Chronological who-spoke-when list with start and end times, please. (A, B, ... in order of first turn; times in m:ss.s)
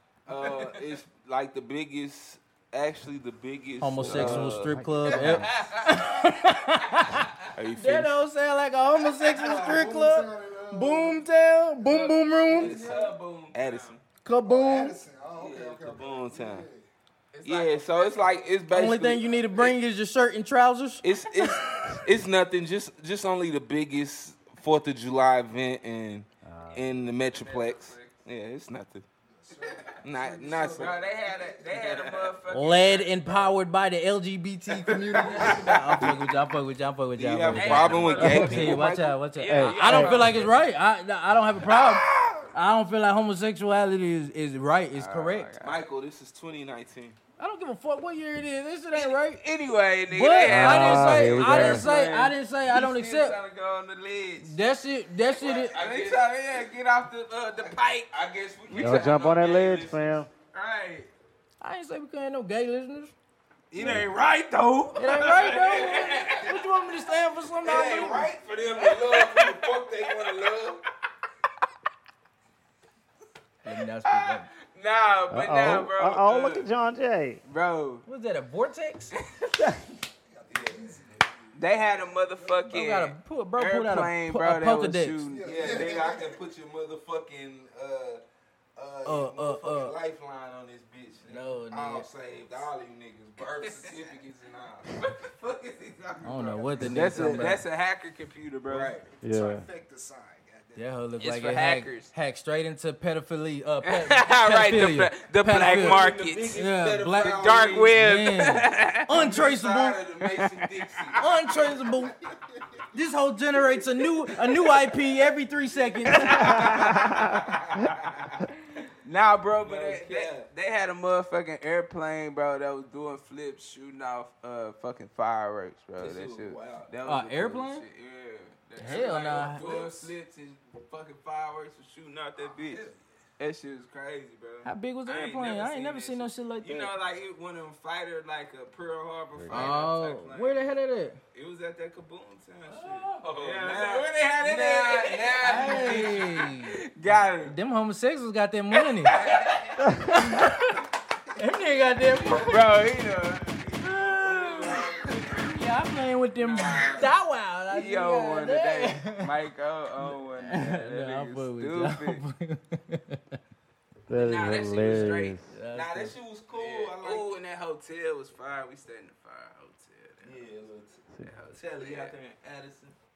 0:00.3-0:04.7 A
0:00.3-0:00.9 B
0:03.8-0:12.8 C
0:04.0-0:05.5 D
0:05.4-0:06.2 B
0:07.6-0:08.1 B
0:09.3-0:11.3 E
0:11.9-0:14.0 B
0:12.5-0:13.2 E
0:12.6-0:13.0 A
0:13.5-0:14.0 A
0:14.2-0:15.0 C
0:14.4-0:16.8 E
0:15.3-0:16.7 A
0:17.3-0:19.7 B
0:17.4-0:19.6 A
0:18.7-0:21.6 C
0:21.0-0:29.1 A
0:26.4-0:27.0 D
0:27.3-0:28.2 B
0:29.3-0:32.1 E
0:30.0-0:31.0 A
0:30.7-0:33.3 B
0:31.7-0:32.3 A
0:32.5-0:45.5 C
0:35.0-0:35.8 E
0:35.2-0:36.0 B
0:37.2-0:39.2 A
0:37.5-0:40.6 B
0:39.5-0:40.3 D
0:41.7-0:42.4 B
0:44.9-0:45.8 B
0:45.6-0:47.2 A
0:47.4-0:49.4 C
0:48.9-0:54.6 B
0:50.1-0:53.4 C
0:50.5-0:51.9 D
0:54.4-0:55.8 C
0:55.4-0:56.7 A
0:55.4-0:58.1 B
0:57.6-1:00.2 A
0:58.7-0:59.9 B
0:58.8-1:00.3 D
1:00.5-1:01.1 B
1:01.6-1:03.1 C
1:03.7-1:06.6 B
1:03.8-1:04.1 A
1:03.8-1:04.1 D
1:05.0-1:08.3 C
1:05.1-1:06.5 A
1:07.6-1:10.8 A
1:08.7-1:10.6 B
1:13.6-1:14.5 C
1:14.0-1:16.7 B
1:15.3-1:17.4 D
1:17.4-1:18.0 B
1:18.1-1:19.1 C
1:20.3-1:22.7 E
1:20.5-1:21.2 A
1:21.5-1:25.8 B
1:22.7-1:25.3 C
1:25.3-1:26.4 E
1:25.4-1:28.2 A
1:28.8-1:35.0 A
1:29.0-1:30.0 C
1:31.3-1:32.1 C
1:33.6-1:34.1 B
1:35.0-1:39.0 B
1:36.2-1:37.6 C
1:36.4-1:37.5 A
1:38.7-1:39.1 A
1:39.1-1:40.9 E
1:39.2-1:39.7 D
1:40.8-1:50.0 C
1:41.2-1:42.1 B
1:43.8-1:46.6 B
1:45.6-1:48.0 A
1:47.2-1:49.1 B
1:49.1-1:51.6 A
1:50.2-1:51.2 B
1:51.2-1:52.1 C
1:52.0-1:52.6 E
1:52.9-1:56.9 C
1:56.1-1:57.6 B
1:56.4-1:58.5 A
1:59.0-2:12.9 B
1:59.6-2:00.5 A
2:06.0-2:06.9 A
2:07.0-2:07.8 C
2:08.8-2:09.8 C
2:08.8-2:10.1 A
2:12.6-2:13.0 A
2:13.4-2:20.6 B
2:14.6-2:16.9 C
2:19.4-2:19.7 D
2:19.5-2:21.2 C
2:21.3-2:27.6 B
2:22.7-2:26.4 A
2:25.4-2:26.7 C
2:27.4-2:29.2 C
2:28.8-2:30.5 B
2:29.9-2:32.7 C
2:32.4-2:33.8 B
2:33.8-2:34.9 C
2:33.8-2:35.5 A
2:34.6-2:35.4 B
2:35.4-2:39.3 C
2:36.4-2:37.1 B
2:36.5-2:37.1 A
2:37.7-2:42.2 B
2:40.0-2:43.4 C
2:44.1-2:45.5 D
2:44.1-2:45.4 B
2:45.5-2:46.2 C
2:45.7-2:47.3 A
2:46.6-2:50.4 B
2:50.2-2:53.0 A
2:51.2-2:52.2 B